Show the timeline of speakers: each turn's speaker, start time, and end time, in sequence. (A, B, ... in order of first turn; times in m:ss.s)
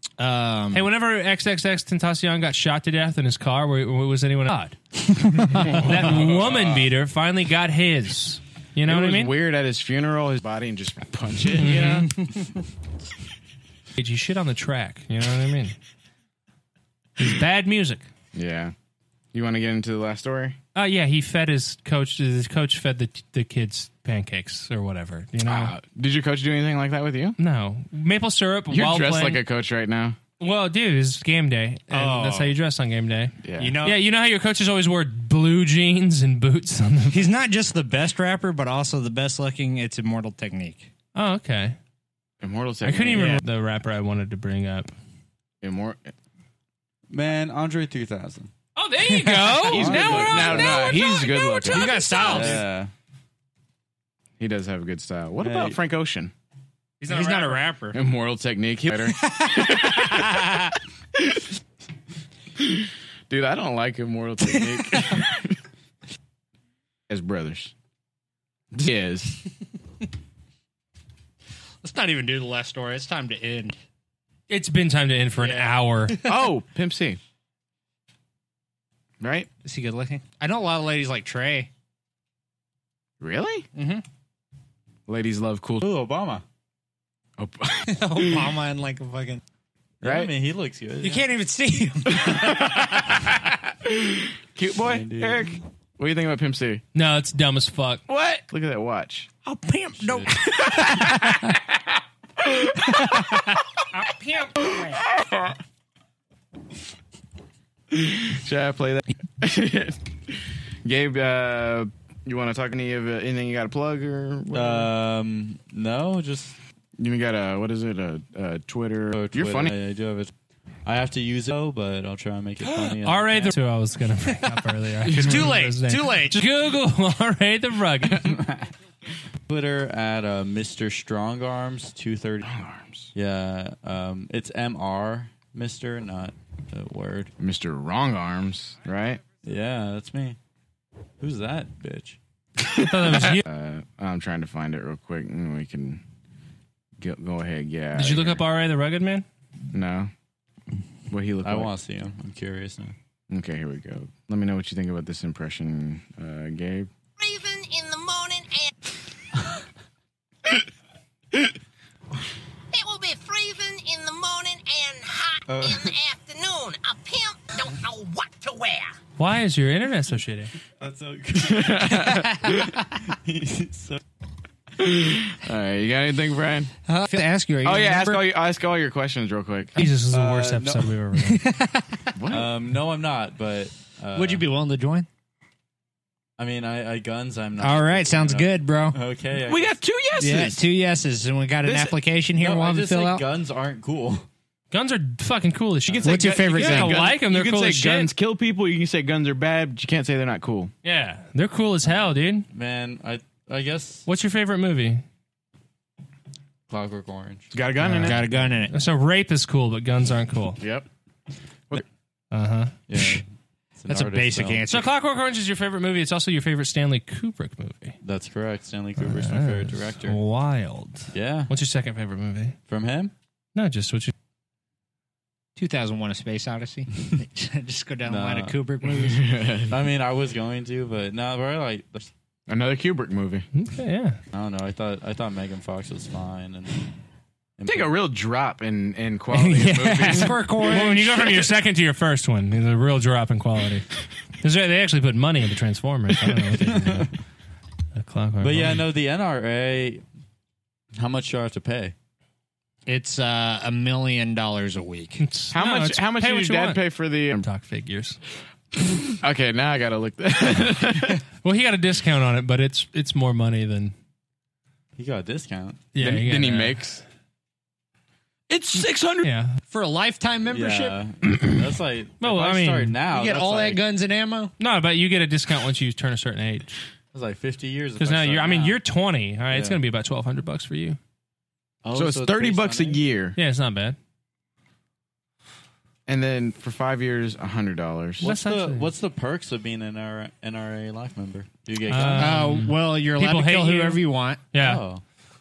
0:00.2-0:00.9 A
0:00.7-0:04.8 B
0:05.3-0:05.7 A
0:05.4-0:09.3 B
0:05.5-0:06.8 C
0:08.8-0:12.0 C
0:11.5-0:12.1 B
0:11.6-0:12.5 A
0:14.0-0:15.7 B
0:17.2-0:18.0 B
0:18.3-0:18.7 C
0:19.3-0:20.6 C
0:20.7-0:25.7 B
0:25.4-0:27.4 C
0:27.4-0:29.4 B
0:28.7-0:30.2 C
0:30.4-0:37.3 B
0:31.9-0:32.5 A
0:33.4-0:33.8 C
0:33.6-0:34.0 A
0:37.1-0:40.9 A
0:41.1-0:41.8 B
0:42.4-0:43.4 C
0:42.8-0:44.9 B
0:43.1-0:43.4 A
0:45.6-0:46.1 C
0:47.1-0:48.5 D
0:48.8-0:52.4 B
0:49.0-0:50.0 A
0:49.6-0:52.4 C
0:49.6-0:50.8 D
0:51.6-0:52.6 A
0:52.2-0:52.9 D
0:54.4-0:56.3 C
0:55.4-0:55.8 D
0:57.0-0:58.0 A
0:57.1-0:57.6 B
0:57.9-1:00.5 C
0:59.2-1:00.7 A
1:01.2-1:01.4 C
1:02.6-1:05.6 C
1:07.1-1:07.7 C
1:08.7-1:09.4 C
1:11.8-1:13.8 A
1:14.5-1:16.2 B
1:15.4-1:16.4 A
1:16.2-1:17.2 C
1:19.2-1:19.5 C
1:19.6-1:21.7 A
1:23.2-1:23.7 C
1:23.7-1:24.0 A
1:25.1-1:25.9 C
1:25.8-1:26.4 D
1:27.4-1:28.5 C
1:27.9-1:29.4 A
1:30.0-1:31.3 D
1:30.0-1:30.3 C
1:31.0-1:33.4 A
1:32.1-1:32.8 C
1:33.8-1:36.8 C
1:34.8-1:35.6 D
1:36.9-1:38.0 B
1:38.1-1:39.3 C
1:39.4-1:41.5 A
1:40.0-1:40.3 D
1:40.6-1:41.6 C
1:42.4-1:43.4 C
1:43.0-1:43.3 A
1:43.9-1:45.0 A
1:44.6-1:45.6 C
1:47.9-1:54.9 C
1:54.5-1:56.6 D
1:57.0-1:59.7 C
1:59.1-2:00.3 D
2:00.8-2:03.5 D
2:02.6-2:08.4 B
2:04.4-2:06.4 A
2:08.3-2:08.6 D
2:09.5-2:12.4 D
2:12.4-2:13.1 C
2:13.1-2:17.3 D
2:17.4-2:19.2 C
2:19.4-2:20.4 D
2:21.2-2:22.2 D
2:22.6-2:26.0 C
2:22.8-2:23.4 B
2:27.0-2:28.4 C
2:27.9-2:29.2 B
2:29.7-2:30.1 C
2:31.1-2:31.7 C
2:31.4-2:32.9 D
2:33.3-2:36.9 C
2:37.2-2:38.7 E
2:42.7-2:48.9 E
2:45.4-2:45.9 D
2:49.2-2:50.5 B
2:50.8-2:54.0 D
2:51.3-2:52.6 C
2:54.8-2:56.7 C
2:56.9-2:58.2 A
2:57.6-2:59.7 C
2:59.8-3:01.4 B
3:00.1-3:01.0 D
3:01.2-3:02.0 A
3:02.1-3:02.5 C
3:02.3-3:04.4 D
3:04.1-3:05.1 A
3:06.4-3:09.8 D
3:07.6-3:09.0 A
3:09.4-3:10.6 C
3:10.2-3:13.2 A
3:11.6-3:11.9 C
3:12.4-3:14.3 D
3:14.7-3:18.1 B
3:15.9-3:20.7 C
3:16.0-3:17.0 A
3:20.8-3:22.5 B
3:22.0-3:24.1 D
3:24.0-3:25.0 B
3:26.7-3:28.6 D
3:27.5-3:28.2 C
3:27.8-3:28.1 B
3:28.0-3:28.7 A
3:28.7-3:30.6 B
3:30.6-3:30.9 C
3:32.3-3:32.7 B
3:32.9-3:33.2 D
3:32.9-3:33.2 A
3:33.8-3:34.6 D
3:33.9-3:34.9 A
3:34.7-3:38.0 B
3:38.0-3:40.2 D
3:39.0-3:42.6 B
3:41.1-3:41.5 D
3:42.7-3:43.1 D
3:43.5-3:44.1 B
3:45.6-3:49.3 A
3:48.0-3:48.6 D
3:48.8-3:49.8 C
3:49.7-3:52.1 D
3:52.5-3:53.4 C
3:53.5-3:54.2 B
3:54.3-3:56.9 D
3:57.6-3:57.9 D
3:57.6-4:00.9 C
3:59.3-4:01.4 A
4:00.5-4:03.9 B
4:04.4-4:07.1 B
4:06.5-4:07.1 D
4:07.9-4:08.8 B
4:08.4-4:10.0 D
4:11.0-4:11.9 D
4:12.8-4:15.2 A
4:15.2-4:18.2 B
4:15.5-4:17.4 C
4:19.2-4:21.2 C
4:21.4-4:23.9 B
4:25.0-4:25.9 D
4:25.9-4:26.8 B
4:26.0-4:27.0 C
4:28.5-4:29.3 C
4:29.2-4:29.6 B
4:29.7-4:31.0 A
4:30.4-4:33.8 D
4:31.3-4:31.6 B
4:32.2-4:33.0 B
4:33.1-4:34.5 A
4:34.6-4:36.8 B
4:37.1-4:38.8 D
4:38.0-4:41.0 B
4:39.5-4:39.8 D
4:41.8-4:43.0 D
4:41.9-4:43.4 C
4:43.4-4:44.0 B
4:46.1-4:48.3 C
4:48.2-4:52.7 D
4:48.2-4:48.9 B
4:51.9-4:54.0 B
4:52.1-4:54.4 A
4:54.5-4:54.8 B
4:54.5-4:55.0 D